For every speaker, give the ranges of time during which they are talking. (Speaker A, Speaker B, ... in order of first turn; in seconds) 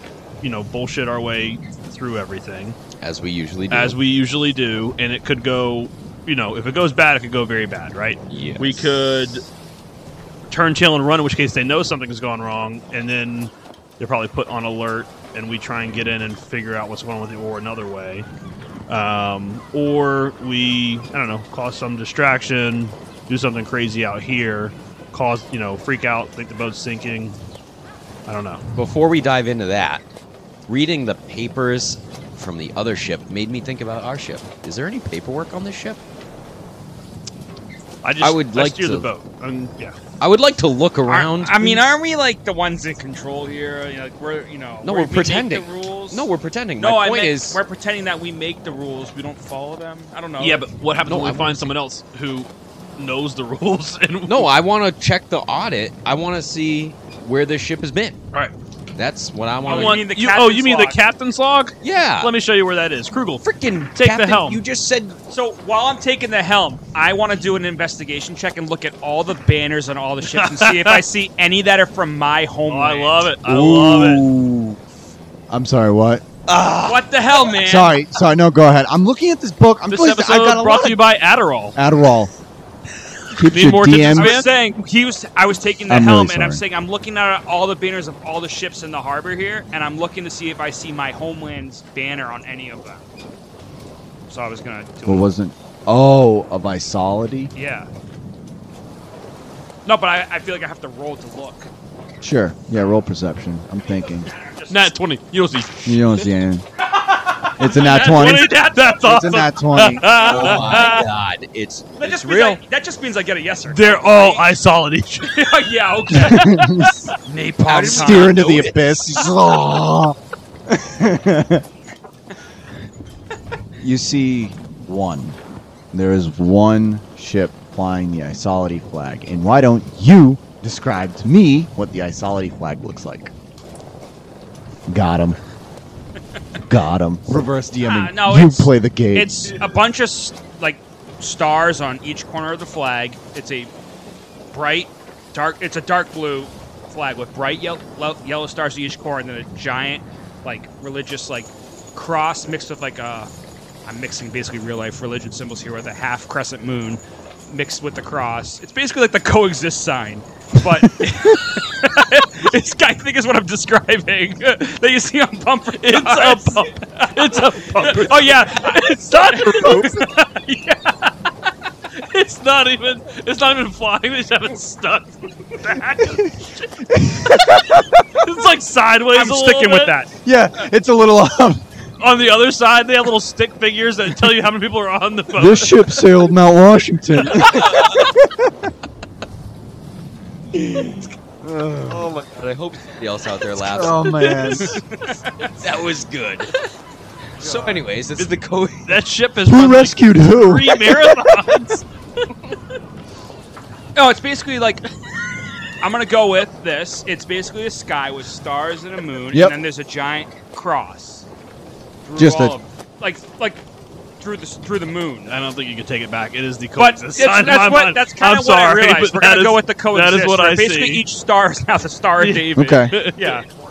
Speaker A: 0.4-2.8, 3.7-9.4, 10.5-18.2, 18.9-27.4, 28.3-28.6, 38.0-40.0, 50.4-54.5, 59.7-64.6, 70.3-71.0, 72.7-74.2, 79.9-81.8, 83.4-84.5, 104.7-106.2, 107.6-111.0, 113.7-115.5, 116.1-116.9, 165.8-170.2, 171.9-177.6, 178.1-179.9, 182.0-186.0, 198.8-201.8, 215.3-221.0, 222.2-223.4
Speaker B: 3.0-4.0, 8.3-8.9, 28.7-30.0, 30.7-36.0, 38.2-39.1, 40.2-42.0, 44.8-47.6, 51.0-51.7, 54.3-58.2, 59.0-60.0, 61.8-62.3, 63.4-65.2, 76.5-76.9, 110.1-112.6, 117.7-118.8, 191.9-194.8, 195.4-196.5, 197.4-199.0
Speaker C: 41.1-46.3, 46.8-50.6, 59.6-61.0, 65.3-73.3, 76.8-77.9, 84.0-93.0, 94.3-95.3, 97.5-97.9, 99.8-101.7, 103.8-104.9, 107.8-108.8, 110.1-111.1, 112.0-114.5, 115.2-118.6, 137.8-143.7, 144.5-153.3, 153.8-171.1, 179.1-180.1, 194.6-195.5, 203.9-204.8, 205.8-211.2, 212.0-213.6, 214.2-215.3, 216.8-223.5
Speaker D: 73.4-74.8, 75.5-76.6, 77.5-81.0, 81.7-82.3, 83.3-84.4, 85.9-86.6, 95.0-97.5, 102.2-104.3, 105.8-106.6, 107.5-110.5, 116.1-117.0, 117.8-120.2, 120.7-121.6, 123.8-125.4, 125.9-133.3, 134.9-135.4, 136.7-139.5, 169.5-169.9, 176.9-178.0, 180.2-181.6, 185.3-188.7, 190.7-192.1, 193.5-194.8, 199.4-201.1, 209.3-209.6, 212.2-212.6, 222.5-222.9